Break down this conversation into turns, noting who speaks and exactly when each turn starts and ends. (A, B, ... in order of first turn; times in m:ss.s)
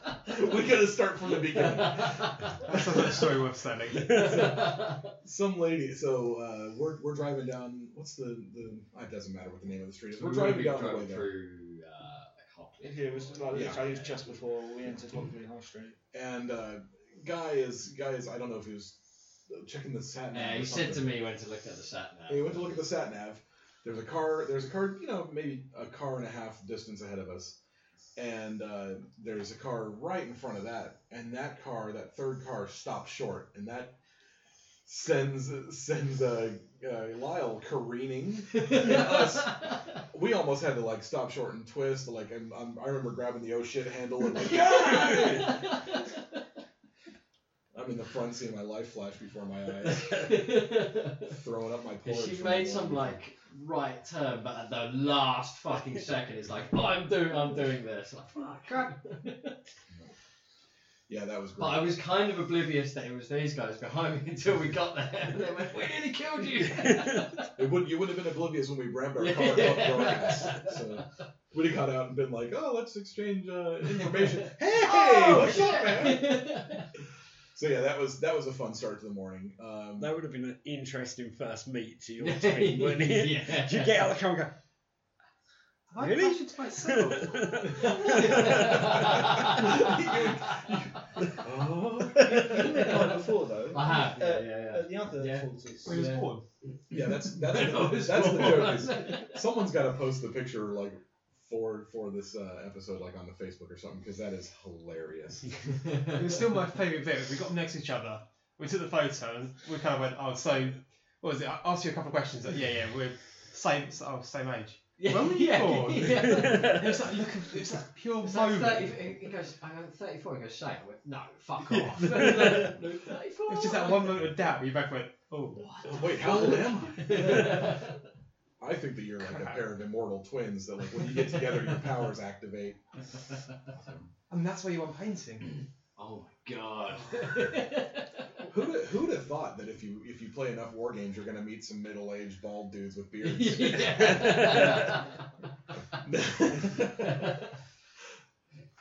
0:00.2-0:03.0 A
0:01.3-0:02.5 B
0:02.7-0:04.6 C
0:04.1-0:05.1 B
0:04.1-0:11.3 A
0:10.1-0:14.4 B
0:12.8-0:16.0 D
0:13.5-0:13.8 A
0:16.1-0:21.1 A
0:20.3-0:22.8 B
0:22.3-0:27.6 A
0:28.2-0:33.9 A
0:34.9-0:45.6 A
0:38.6-0:39.3 B
0:44.7-0:45.8 B
0:47.7-0:50.2 A
0:49.8-0:51.4 B
0:51.3-0:53.2 A
0:52.0-0:59.6 B
1:01.1-1:02.0 A
1:01.6-1:07.5 B
1:07.6-1:16.4 A
1:09.2-1:10.8 B
1:14.0-1:16.9 B
1:17.5-1:20.1 A
1:20.0-1:24.5 E
1:22.2-1:24.0 B
1:25.9-1:28.7 C
1:26.0-1:29.0 E
1:28.0-1:30.3 B
1:28.9-1:33.3 A
1:32.2-1:36.1 D
1:33.7-1:36.3 B
1:35.8-1:36.4 C
1:36.9-1:45.5 A
1:37.0-1:39.4 B
1:46.1-1:59.2 C
1:55.0-1:56.9 B
1:56.4-1:56.8 E
1:58.2-2:04.2 B
2:01.7-2:02.7 C
2:03.4-2:05.9 C
2:05.5-2:08.0 B
2:05.8-2:07.1 A
2:07.0-2:07.5 C
2:08.6-2:12.8 A
2:09.2-2:09.6 C
2:14.3-2:15.5 C
2:16.0-2:18.2 B
2:18.4-2:24.8 A
2:23.2-2:25.1 B
2:24.1-2:24.9 E
2:26.0-2:27.2 A
2:27.0-2:27.4 B